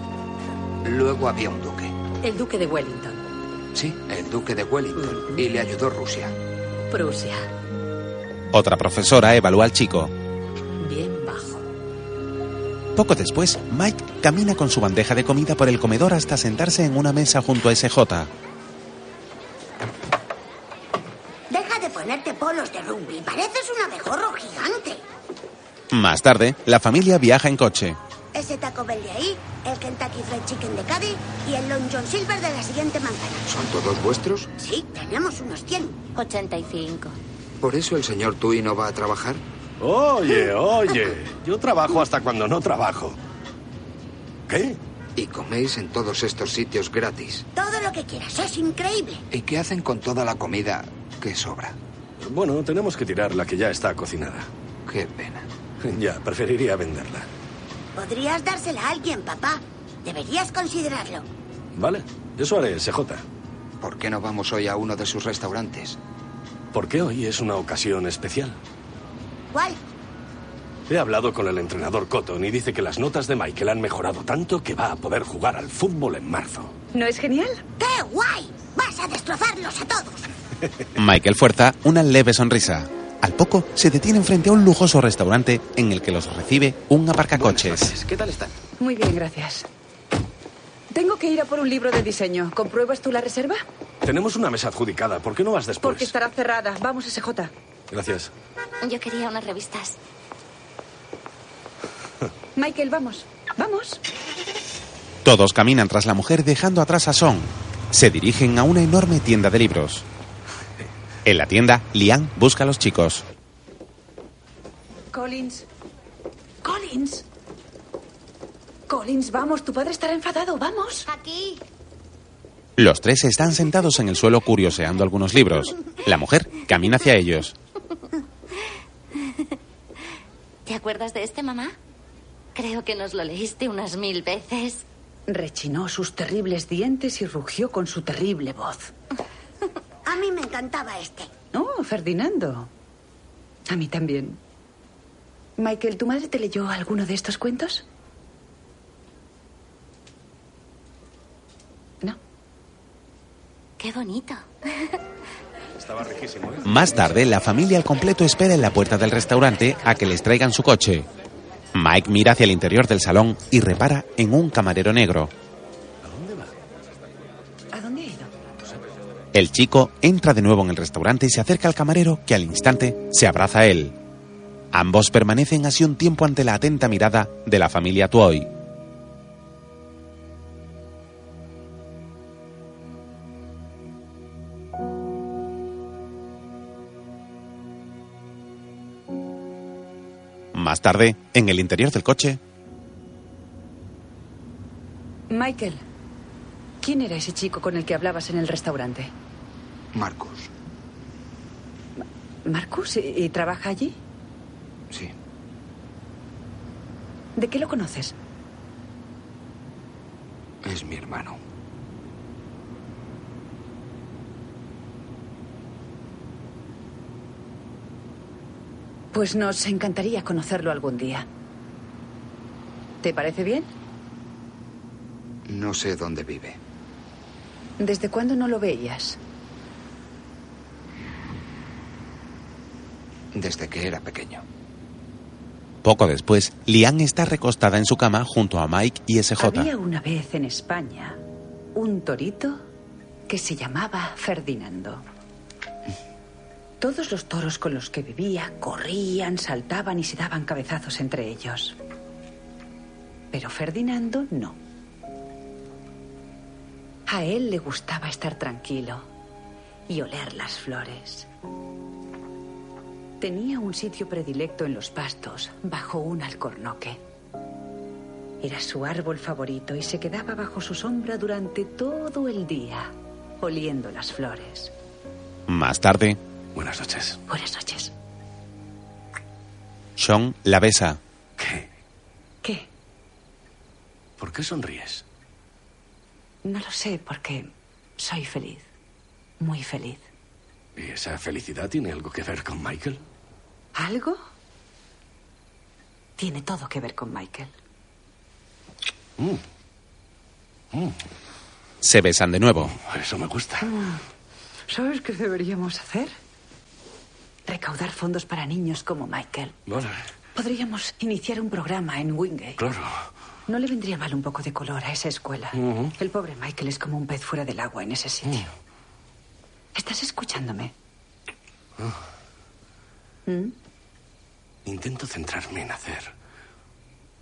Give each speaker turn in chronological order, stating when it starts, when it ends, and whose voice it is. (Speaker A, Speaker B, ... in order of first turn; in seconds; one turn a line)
Speaker A: 0.8-1.9
Speaker B: 2.2-3.2
Speaker A: 3.8-6.3
Speaker B: 5.0-5.4
Speaker B: 6.9-7.5
Speaker C: 8.5-10.1
Speaker B: 10.8-11.6
Speaker C: 13.0-18.3
Speaker D: 21.5-25.0
Speaker C: 25.9-28.0
Speaker D: 28.3-33.5
Speaker A: 33.5-34.5
Speaker D: 34.6-36.1
Speaker E: 36.1-37.2
Speaker A: 37.6-39.4
Speaker F: 39.8-43.2
Speaker F: 44.5-44.8
Speaker A: 45.2-47.5
Speaker D: 47.5-49.2
Speaker A: 49.3-51.8
Speaker F: 52.2-54.5
Speaker A: 54.9-55.5
Speaker F: 55.8-57.3
Speaker D: 58.0-61.3
Speaker F: 61.8-63.2
Speaker A: 63.8-66.0
Speaker F: 66.7-68.6
Speaker D: 69.5-69.8
Speaker F: 70.9-76.7
Speaker G: 76.9-77.6
Speaker D: 77.8-80.3
Speaker C: 81.0-87.9
Speaker F: 87.4-88.5
Speaker G: 88.8-89.7
Speaker G: 90.9-93.6
Speaker F: 94.0-96.1
Speaker G: 95.8-97.5
Speaker F: 97.9-98.3
Speaker E: 98.8-100.0
Speaker G: 102.6-104.0
Speaker C: 105.2-110.0
Speaker C: 111.2-113.2
Speaker G: 115.1-115.7
Speaker G: 116.6-117.2
Speaker G: 118.9-121.1
Speaker D: 121.1-121.6
Speaker C: 122.8-127.5
Speaker E: 130.7-131.8
Speaker E: 132.6-134.8
Speaker G: 135.3-138.9
Speaker D: 140.1-141.3
Speaker G: 141.5-142.7
Speaker G: 143.7-144.4
Speaker G: 145.6-147.9
Speaker E: 153.8-154.8
Speaker F: 155.8-156.7
Speaker C: 156.7-161.1
Speaker C: 161.7-165.3
Speaker F: 166.0-166.5
Speaker G: 167.7-168.3
Speaker C: 169.3-174.0
Speaker C: 174.7-178.5
Speaker C: 190.5-192.4
Speaker G: 195.3-195.8
Speaker G: 196.8-199.1
Speaker A: 199.9-200.5
Speaker G: 202.0-204.0
Speaker G: 207.4-208.1
Speaker A: 210.6-211.4
Speaker G: 219.1-221.3
Speaker G: 223.0-223.7
Speaker A: 225.5-226.6
Speaker G: 227.8-229.2
Speaker A: 233.3-234.4
Speaker C: 235.8-239.7
Speaker G: 239.4-241.2
Speaker G: 241.8-242.6
Speaker G: 243.3-245.0
Speaker G: 246.8-251.8
Speaker G: 253.3-254.6
Speaker G: 257.1-259.1
Speaker G: 259.9-261.3
Speaker G: 263.2-267.0
Speaker G: 268.4-274.7
Speaker C: 275.5-276.2
Speaker F: 276.6-277.2
Speaker G: 277.3-277.9
Speaker C: 280.0-281.0
Speaker F: 281.4-281.7
Speaker F: 284.2-285.0
Speaker G: 286.4-288.7
Speaker G: 289.4-290.1
Speaker F: 290.8-293.0
Speaker G: 293.8-294.2
Speaker G: 296.2-297.5
Speaker C: 301.8-302.8
Speaker F: 302.8-303.7
Speaker G: 303.6-304.0
Speaker G: 304.7-306.1
Speaker G: 307.5-309.6
Speaker F: 309.7-310.0
Speaker G: 310.4-312.6
Speaker F: 312.6-313.0
Speaker G: 313.5-318.5
Speaker F: 315.6-315.9
Speaker G: 319.8-320.7
Speaker G: 323.3-323.6
Speaker F: 324.7-326.1